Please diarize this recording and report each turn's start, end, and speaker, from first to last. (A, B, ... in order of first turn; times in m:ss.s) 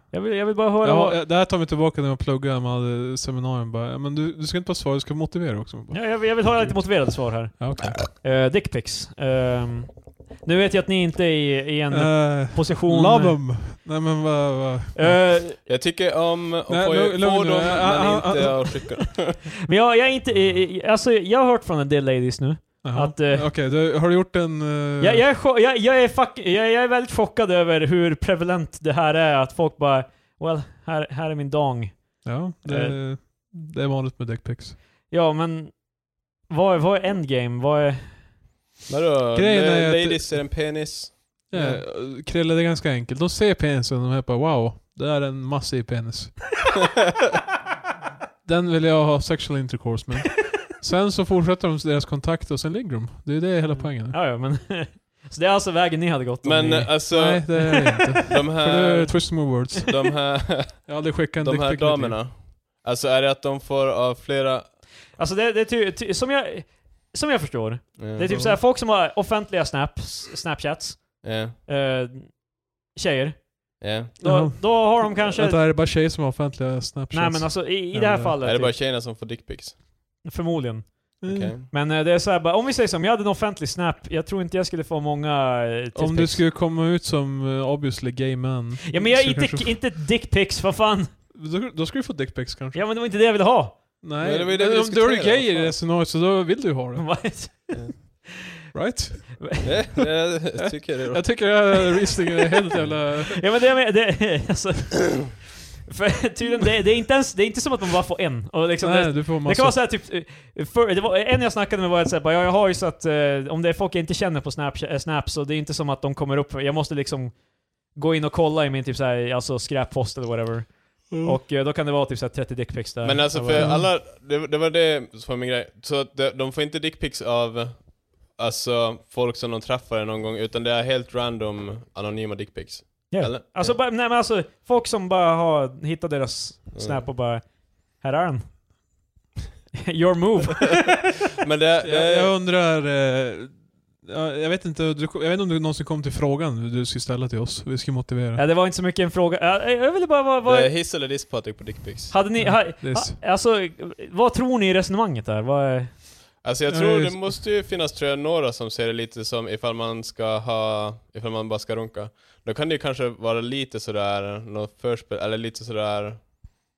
0:00.1-0:01.2 A
0:00.8-0:08.0 B
0:05.9-0:13.4 A
0:11.9-0:15.3 B
0:14.9-0:15.6 A
0:15.6-0:19.4 C
0:16.7-0:18.9 B
0:19.7-0:23.5 A
0:22.8-0:25.2 B
0:25.0-0:33.0 A
0:32.2-0:34.8 B
0:35.1-0:38.2 A
0:38.9-0:41.8 C
0:39.3-0:40.6 B
0:41.5-0:46.6 B
0:41.5-0:41.8 A
0:48.4-0:54.2 B
0:53.7-0:57.8 A
0:56.4-0:57.7 C
0:57.1-1:00.0 B
0:58.3-1:04.7 C
1:00.8-1:02.2 B
1:05.2-1:15.6 A
1:08.0-1:08.3 C
1:08.2-1:08.6 B
1:11.2-1:11.6 C
1:13.8-1:14.1 C
1:14.2-1:18.3 B
1:17.1-1:18.7 A
1:18.4-1:19.8 C
1:20.2-1:26.4 A
1:21.2-1:21.5 B
1:21.3-1:21.7 C
1:25.9-1:29.9 B
1:28.9-1:31.1 A
1:31.3-1:32.8 B
1:32.7-1:34.0 A
1:34.0-1:37.6 B
1:34.2-1:35.8 C
1:37.0-1:38.2 A
1:38.7-1:39.8 B
1:39.6-1:41.7 C
1:40.6-1:43.5 B
1:42.6-2:03.8 A
1:48.8-1:49.8 B
2:01.1-2:01.4 B
2:03.0-2:13.8 C
2:03.5-2:03.9 B
2:13.1-2:18.9 A
2:16.7-2:17.1 C
2:19.8-2:20.9 A
2:21.4-2:22.3 C
2:21.8-2:28.4 B
2:28.3-2:30.7 A
2:30.4-2:32.1 C
2:32.1-2:36.0 A
2:32.4-2:33.2 B
2:36.4-2:46.4 C
2:36.7-2:37.4 B